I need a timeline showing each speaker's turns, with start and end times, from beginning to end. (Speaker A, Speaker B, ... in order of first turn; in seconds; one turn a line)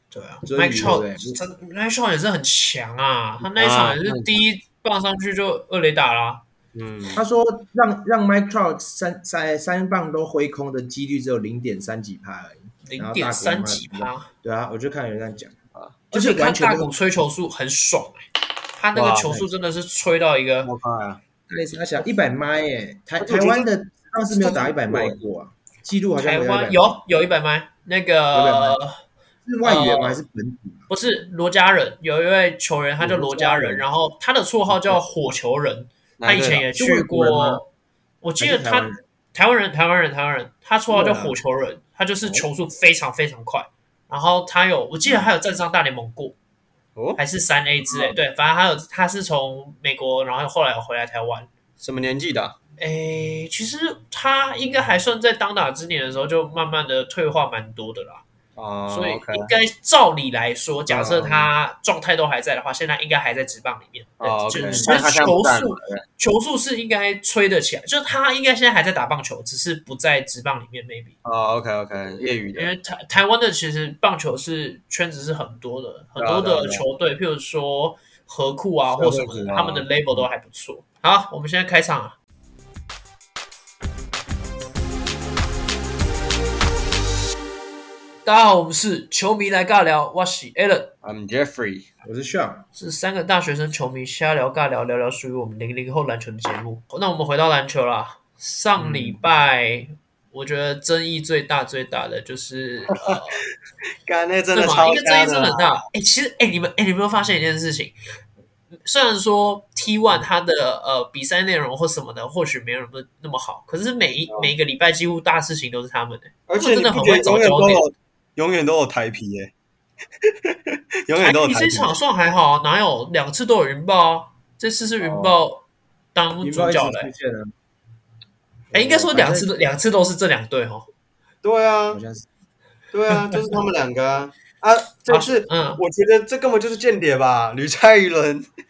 Speaker A: 0.1-6.4
Speaker B: 0.4-1.4
Speaker C: 3.4-4.4
Speaker C: 6.7-7.2
Speaker B: 7.1-15.5
Speaker A: 12.8-14.3
Speaker B: 16.1-16.9
Speaker A: 16.1-18.2
Speaker A: 18.8-20.7
Speaker C: 18.9-19.4
Speaker C: 20.6-21.2
Speaker B: 21.5-26.9
Speaker C: 23.2-23.6
Speaker C: 24.3-25.2
Speaker A: 26.2-29.0
Speaker B: 28.3-28.8
Speaker B: 29.4-30.9
Speaker A: 29.6-30.2
Speaker A: 30.9-37.6
Speaker B: 33.0-33.8
Speaker C: 36.2-36.7
Speaker B: 36.7-37.6
Speaker A: 38.2-46.4
Speaker B: 38.4-39.0
Speaker B: 40.9-41.3
Speaker C: 47.0-47.2
Speaker A: 47.2-51.5
Speaker C: 51.8-52.5
Speaker A: 52.8-58.2
Speaker C: 58.5-59.5
Speaker A: 58.9-71.1
Speaker C: 60.9-61.5
Speaker C: 64.2-66.0
Speaker B: 64.5-65.0
Speaker C: 71.2-72.7
Speaker A: 72.5-82.2
Speaker C: 76.2-76.8
Speaker C: 79.0-80.2
Speaker A: 88.2-90.9
Speaker C: 91.0-91.8
Speaker B: 92.0-92.6
Speaker A: 92.8-103.4
Speaker C: 98.8-99.2
Speaker C: 102.9-103.5
Speaker C: 104.0-105.8
Speaker A: 104.5-107.9
Speaker A: 108.8-117.8
Speaker C: 116.5-119.5
Speaker C: 120.5-122.0
Speaker A: 121.2-127.1
Speaker C: 125.0-125.3
Speaker B: 126.4-127.5
Speaker B: 128.7-129.5
Speaker A: 128.7-130.9
Speaker C: 131.4-132.0
Speaker B: 131.9-132.3
Speaker C: 132.9-138.4
Speaker A: 133.1-133.4
Speaker A: 135.1-135.8